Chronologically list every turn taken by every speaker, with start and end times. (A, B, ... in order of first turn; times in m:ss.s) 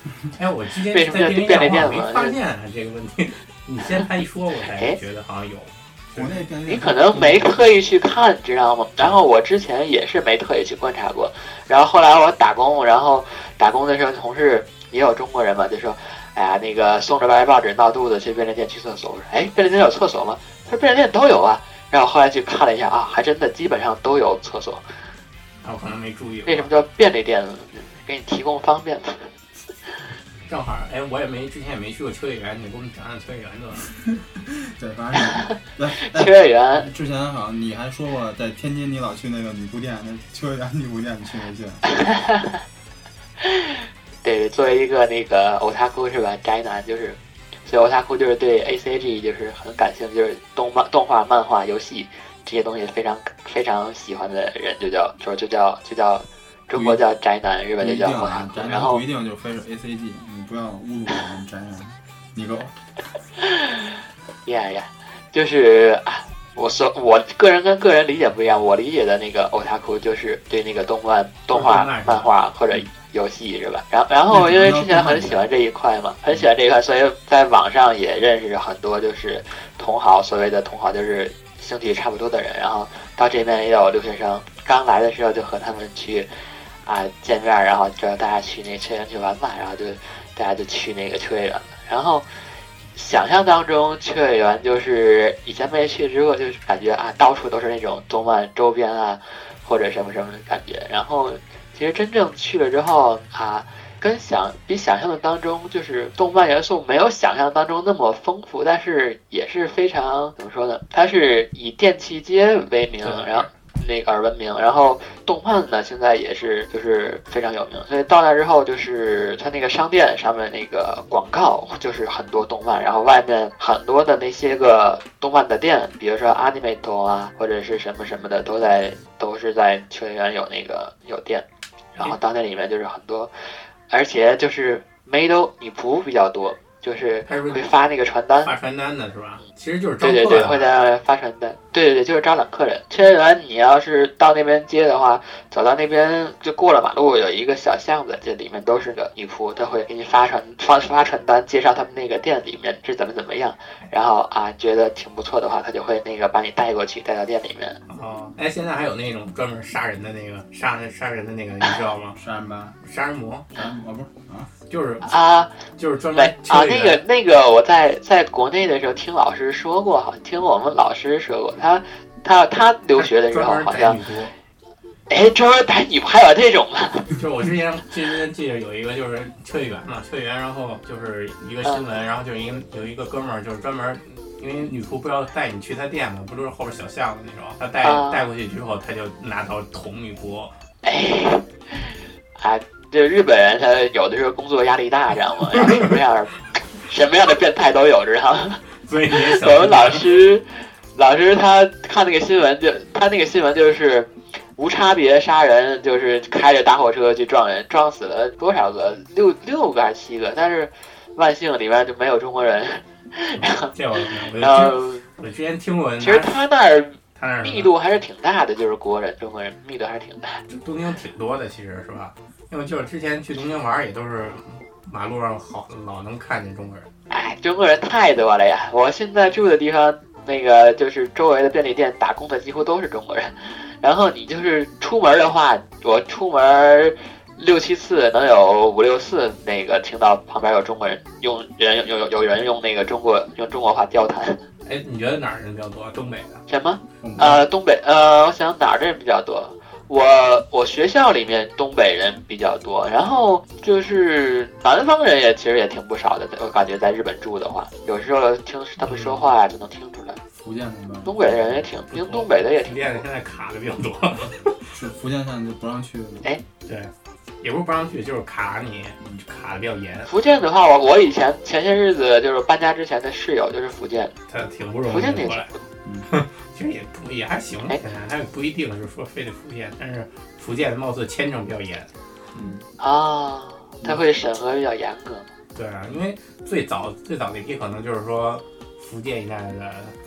0:00.4-0:06.4 A
0:00.9-0:02.4 B
0:04.7-0:05.0 B
0:06.1-0:07.7 C
0:06.7-0:25.0 B
0:25.6-0:26.7 A
0:26.5-0:29.3 B
0:30.4-0:34.0 A
0:34.5-0:41.8 C
0:36.0-0:36.9 B
0:42.0-0:42.6 B
0:43.4-0:59.0 B
0:56.7-0:57.0 C
0:57.8-1:02.8 C
1:03.4-1:03.8 B
1:04.5-1:26.3 B
1:11.5-1:12.3 A
1:14.3-1:15.5 C
1:26.8-1:32.2 B
1:33.0-2:11.4 B
1:53.0-1:53.5 A
2:12.0-2:13.3 B
2:13.9-2:18.5 B
2:17.3-2:17.6 A
2:18.4-2:20.7 A
2:20.0-2:37.8 B
2:37.9-2:42.2 A
2:42.1-2:42.8 C
2:42.8-2:43.5 A
2:43.5-2:44.5 C
2:44.7-2:45.1 A
2:45.1-2:45.5 B
2:45.8-2:47.0 A
2:46.2-2:54.0 B
2:53.0-2:54.3 A
2:55.1-2:57.1 B
2:57.2-3:10.5 A
3:07.8-3:08.3 B
3:10.8-3:18.6 B
3:18.8-3:20.1 A
3:19.2-3:33.7 B
3:33.4-3:36.4 A
3:34.4-3:35.1 B
3:36.0-3:40.4 B
3:37.2-3:37.7 A
3:40.5-3:46.9 A
3:47.1-4:04.4 B
4:04.7-4:06.4 A
4:06.5-4:20.2 B
4:07.0-4:07.5 C
4:18.8-4:19.3 A
4:20.4-4:21.7 C
4:21.1-4:23.0 B
4:21.9-4:24.7 A
4:24.7-4:26.3 C
4:26.7-4:30.1 A
4:30.1-4:34.2 B
4:34.3-4:35.5 A
4:34.9-4:35.4 B
4:35.8-4:36.1 C
4:36.1-4:41.9 A
4:42.3-4:42.7 C
4:42.8-4:45.3 B
4:45.6-4:50.0 A